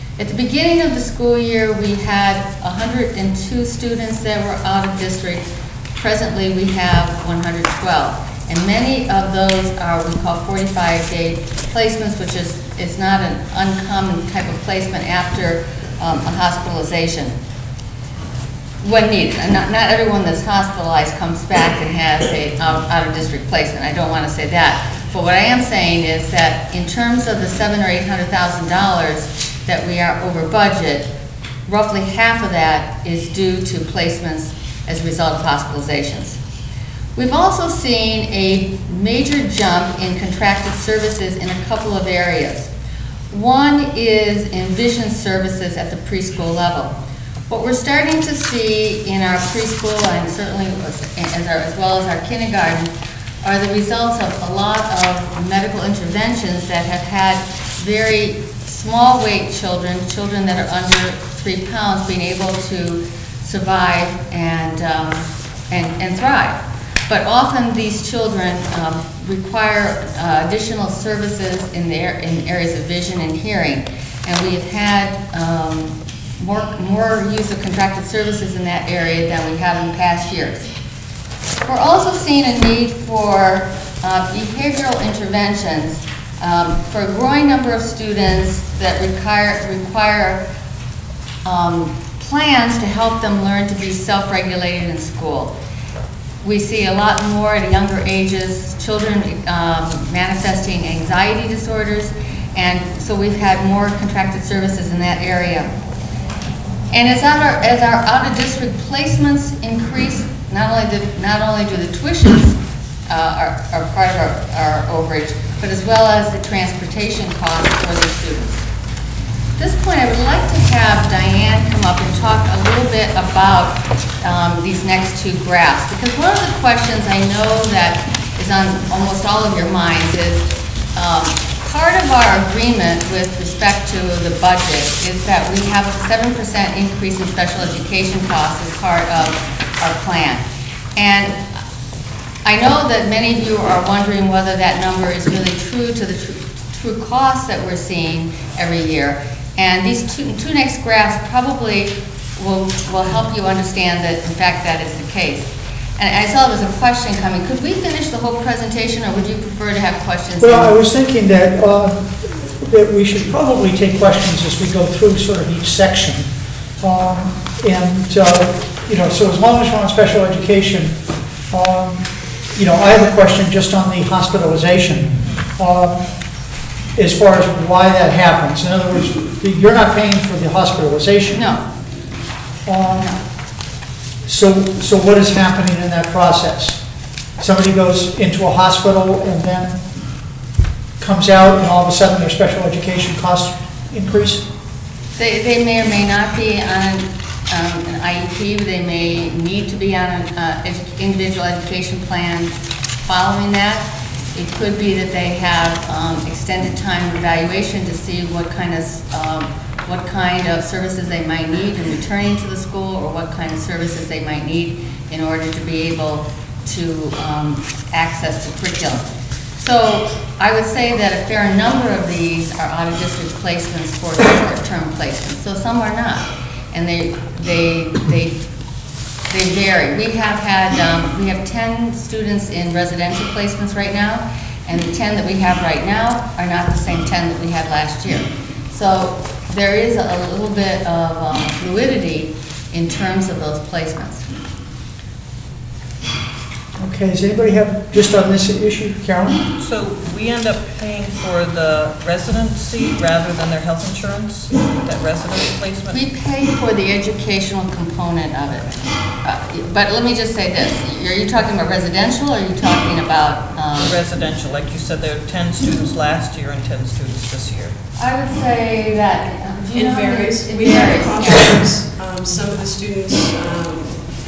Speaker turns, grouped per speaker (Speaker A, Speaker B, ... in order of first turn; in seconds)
Speaker A: 0.2-17.4, 18.8-31.1, 31.7-36.4, 37.1-42.7, 43.3-46.9, 47.5-52.9, 53.4-80.7, 81.6-90.4, 91.4-95.5, 96.4-105.7, 106.9-112.6, 113.1-118.6, 119.6-140.4, 140.9-141.6, 142.4-160.7, 181.3-181.6, 182.9-183.2, 195.2-228.4, 229.3-244.2, 255.9-263.9, 268.0-271.6
Speaker B: 160.4-166.3, 166.8-170.9, 171.5-176.1, 176.9-181.4, 182.7-183.1, 184.2-186.8, 187.4-189.8, 191.0-194.4, 246.8-249.4
Speaker C: 249.5-256.0, 263.8-267.8
Speaker D: 269.8-274.0